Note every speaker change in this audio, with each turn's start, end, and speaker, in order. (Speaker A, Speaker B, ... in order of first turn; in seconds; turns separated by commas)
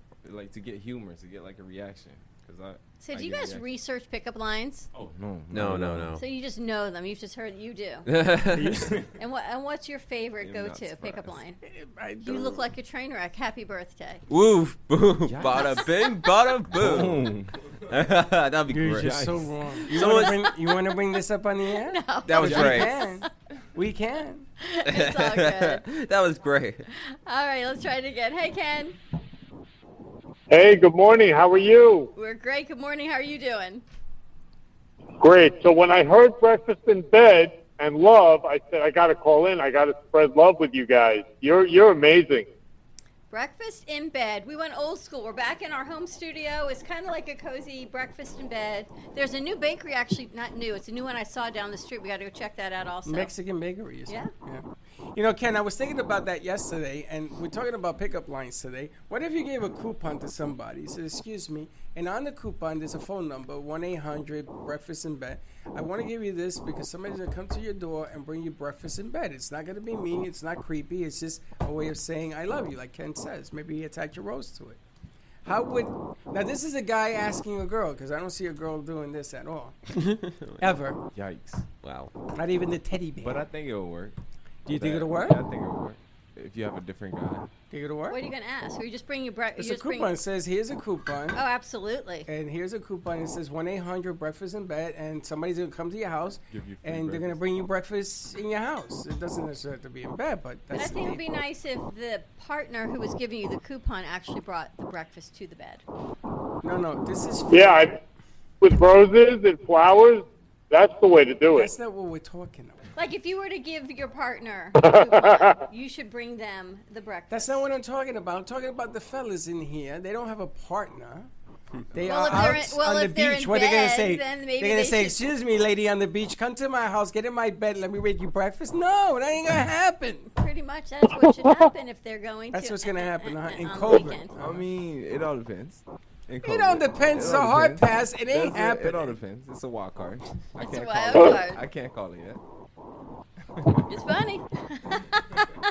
Speaker A: 0.2-3.7, Speaker B: 3.0-4.9, Speaker A: 4.9-6.2, Speaker C: 5.5-6.2, Speaker B: 6.2-8.1, Speaker C: 8.1-8.9, Speaker D: 8.6-8.9, Speaker A: 8.7-9.1, Speaker B: 9.2-11.6, Speaker A: 10.4-11.4, Speaker D: 11.6-12.6, Speaker B: 12.2-14.2, Speaker C: 14.3-17.3, Speaker A: 15.3-15.8, Speaker A: 16.7-17.5, Speaker C: 17.9-19.1, Speaker D: 18.7-24.4, Speaker A: 18.9-19.5, Speaker C: 19.9-20.4, Speaker B: 21.8-23.2, Speaker C: 22.2-22.9, Speaker A: 22.4-22.8, Speaker B: 24.6-25.8, Speaker C: 24.8-26.8, Speaker B: 26.9-28.9, Speaker E: 30.5-32.1, Speaker B: 32.1-33.8, Speaker E: 35.2-42.5, Speaker B: 43.3-53.3, Speaker D: 53.0-74.8, Speaker D: 75.4-80.0, Speaker D: 80.6-81.0, Speaker A: 81.1-81.6, Speaker C: 81.8-82.1, Speaker D: 82.3-83.5, Speaker A: 83.2-84.2, Speaker D: 84.7-85.4, Speaker A: 84.7-87.5, Speaker D: 87.7-88.2, Speaker B: 88.1-90.1, Speaker D: 89.6-91.4, Speaker B: 91.3-92.3, Speaker D: 92.3-101.3, Speaker A: 96.5-97.4, Speaker B: 100.7-105.8, Speaker D: 106.6-107.9, Speaker E: 107.5-108.0, Speaker E: 108.6-111.7, Speaker D: 111.5-112.8, Speaker B: 113.0-117.6, Speaker D: 117.3-121.3, Speaker D: 121.9-130.3, Speaker B: 122.0-125.2, Speaker B: 130.3-134.3, Speaker D: 132.5-134.6, Speaker A: 134.3-142.4, Speaker D: 136.4-139.2, Speaker B: 140.6-141.6, Speaker A: 143.6-143.8, Speaker B: 143.9-145.5